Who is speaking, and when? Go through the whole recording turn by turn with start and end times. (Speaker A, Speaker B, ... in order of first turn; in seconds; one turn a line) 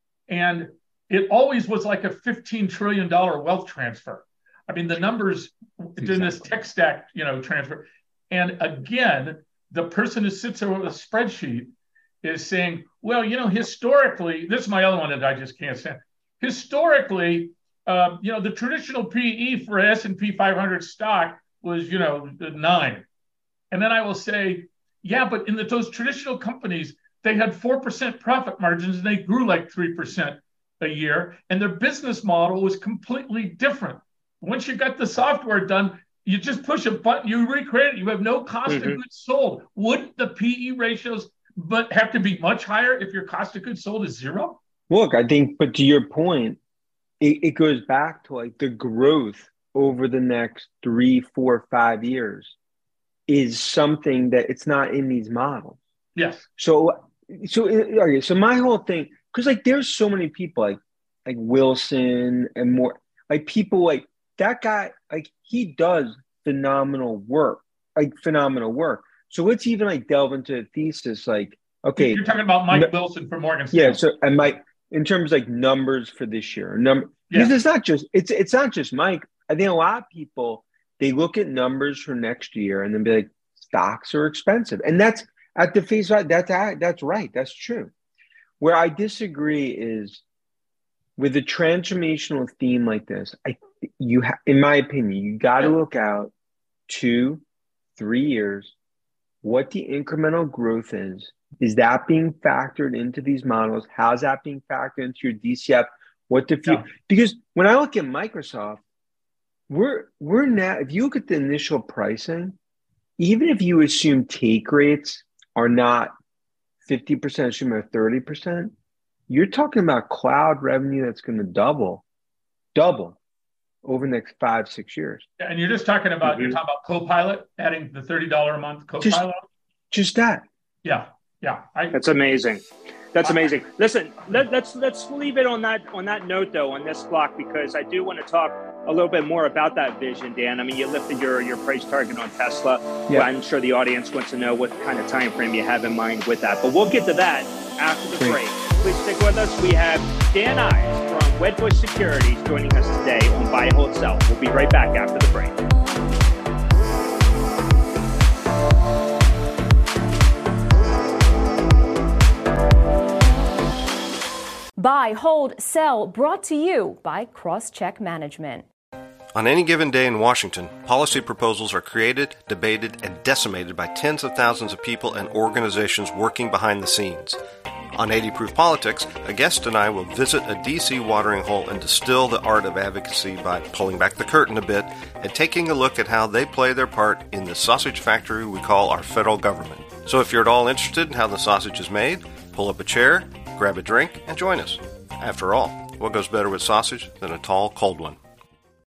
Speaker A: 0.3-11.7
Speaker B: 6.0-6.5
Speaker A: 12.2-23.1
Speaker A: 23.7-44.6
Speaker C: 38.7-39.0
Speaker B: 44.9-46.6
Speaker B: 47.2-52.5
Speaker B: 53.3-55.8
Speaker A: 56.1-56.5
Speaker B: 56.6-72.9
Speaker A: 72.0-74.0
Speaker B: 73.7-87.9
Speaker B: 88.6-90.2
Speaker B: 91.2-96.3
Speaker B: 96.9-97.4
Speaker B: 98.0-98.7
Speaker B: 99.4-108.8
Speaker A: 106.6-106.9
Speaker B: 109.7-112.6
Speaker B: 113.2-116.1
Speaker B: 116.8-118.7
Speaker B: 119.3-122.0
Speaker B: 122.7-123.2
Speaker B: 123.8-125.2
Speaker A: 125.4-129.4
Speaker C: 126.2-126.5
Speaker B: 129.9-130.4
Speaker A: 130.8-132.0
Speaker C: 131.9-155.6
Speaker A: 133.2-133.6
Speaker D: 164.8-168.7
Speaker E: 169.3-177.4
Speaker E: 177.9-198.2